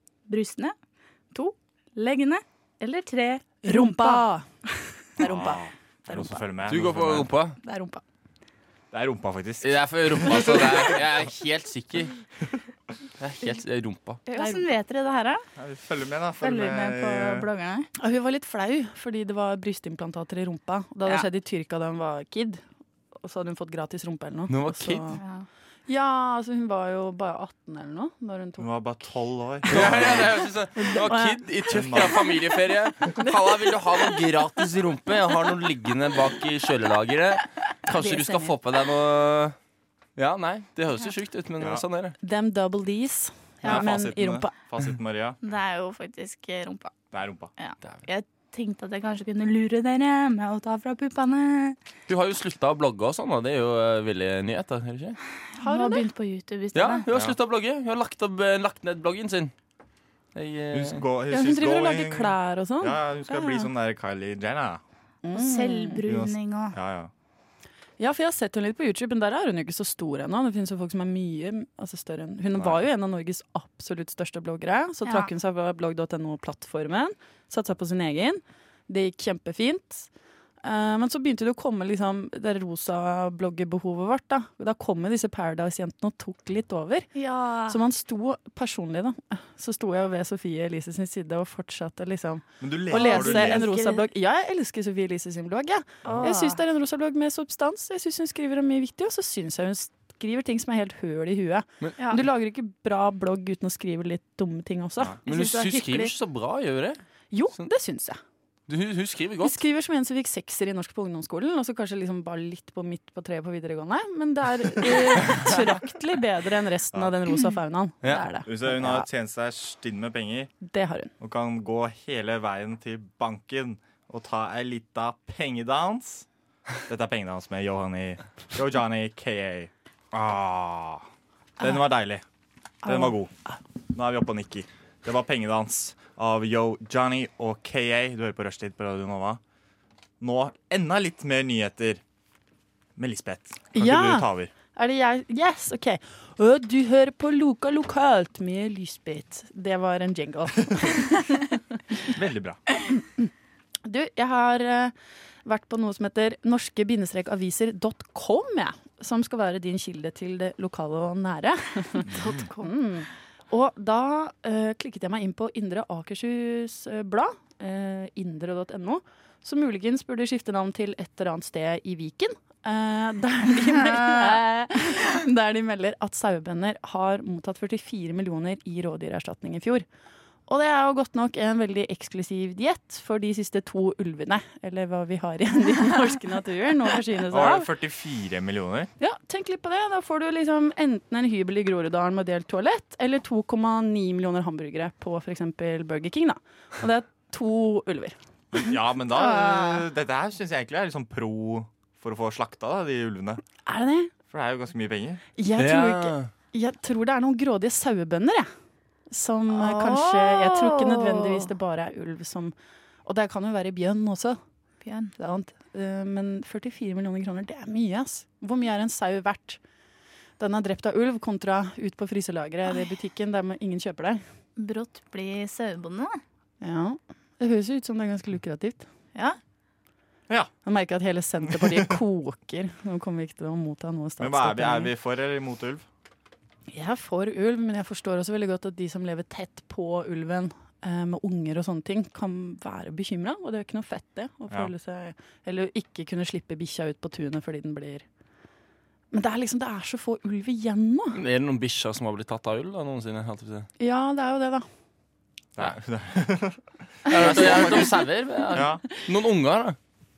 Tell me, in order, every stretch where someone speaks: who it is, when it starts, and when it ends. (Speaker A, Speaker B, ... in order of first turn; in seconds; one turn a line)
Speaker A: 0.3-0.7
Speaker A: 1.3-4.2
Speaker B: 3.6-4.5
Speaker C: 5.2-7.3
Speaker B: 5.2-6.4
Speaker D: 6.7-7.6
Speaker B: 7.6-8.0
Speaker C: 8.9-11.0
Speaker D: 9.6-12.2
Speaker D: 13.2-14.2
Speaker A: 14.3-15.4
Speaker B: 14.3-14.7
Speaker C: 15.6-17.5
Speaker A: 16.4-17.9
Speaker B: 18.0-22.6
Speaker B: 23.2-25.2
Speaker D: 24.5-25.1
Speaker A: 25.2-25.4
Speaker B: 25.9-28.7
Speaker C: 28.6-30.4
Speaker D: 29.7-39.5
Speaker B: 30.8-31.4
Speaker C: 31.7-32.2
Speaker B: 37.9-38.5
Speaker D: 40.1-42.1
Speaker C: 41.6-41.8
Speaker B: 42.2-44.5
Speaker C: 43.6-45.4
Speaker A: 45.4-46.9
Speaker C: 47.1-47.5
Speaker A: 47.6-51.8
Speaker D: 52.1-55.2
Speaker A: 55.6-57.0
Speaker B: 55.6-56.1
Speaker D: 56.7-59.5
Speaker C: 57.1-57.4
Speaker D: 60.3-61.0
Speaker C: 60.7-64.8
Speaker B: 61.3-63.6
Speaker B: 65.2-66.0
Speaker A: 65.3-66.8
Speaker C: 66.0-67.1
Speaker B: 68.0-80.1
Speaker C: 72.5-72.8
Speaker B: 80.6-87.1
Speaker A: 87.1-87.8
Speaker B: 87.7-105.2
Speaker C: 92.6-93.7
Speaker A: 92.9-94.0
Speaker A: 96.1-96.6
Speaker A: 105.2-106.1
Speaker D: 105.2-107.0
Speaker B: 107.3-108.2
Speaker D: 108.7-109.6
Speaker B: 109.4-119.1
Speaker C: 118.5-120.5
Speaker B: 120.6-121.1
Speaker C: 121.2-126.3
Speaker C: 126.9-131.0
Speaker C: 131.6-132.2
Speaker C: 132.8-133.3
Speaker C: 133.9-139.4
Speaker C: 140.2-142.0
Speaker C: 143.0-144.5
Speaker B: 143.7-151.3
Speaker C: 152.1-152.6
Speaker B: 153.8-154.9
Speaker B: 155.4-179.8
Speaker A: 162.0-162.7
Speaker C: 162.1-162.5
Speaker A: 173.8-174.4
Speaker B: 180.5-187.7
Speaker C: 187.3-188.9
Speaker B: 189.0-198.2
Speaker C: 198.5-203.4
Speaker A: 199.2-199.8
Speaker B: 203.7-204.1
Speaker C: 204.3-205.2
Speaker B: 205.4-208.5
Speaker D: 205.6-206.3
Speaker B: 209.1-212.5
Speaker A: 209.5-211.5
Speaker B: 213.1-214.4
Speaker A: 214.8-215.1
Speaker B: 215.2-219.6
Speaker B: 220.4-224.2
Speaker A: 224.6-226.2
Speaker B: 226.6-228.8
Speaker B: 230.6-234.9
Speaker C: 231.5-231.9
Speaker C: 234.2-235.8
Speaker B: 236.7-248.0
Speaker B: 249.1-251.2
Speaker D: 251.1-253.7
Speaker B: 253.8-254.6
Speaker C: 255.6-258.8
Speaker B: 257.1-257.9
Speaker D: 257.1-259.8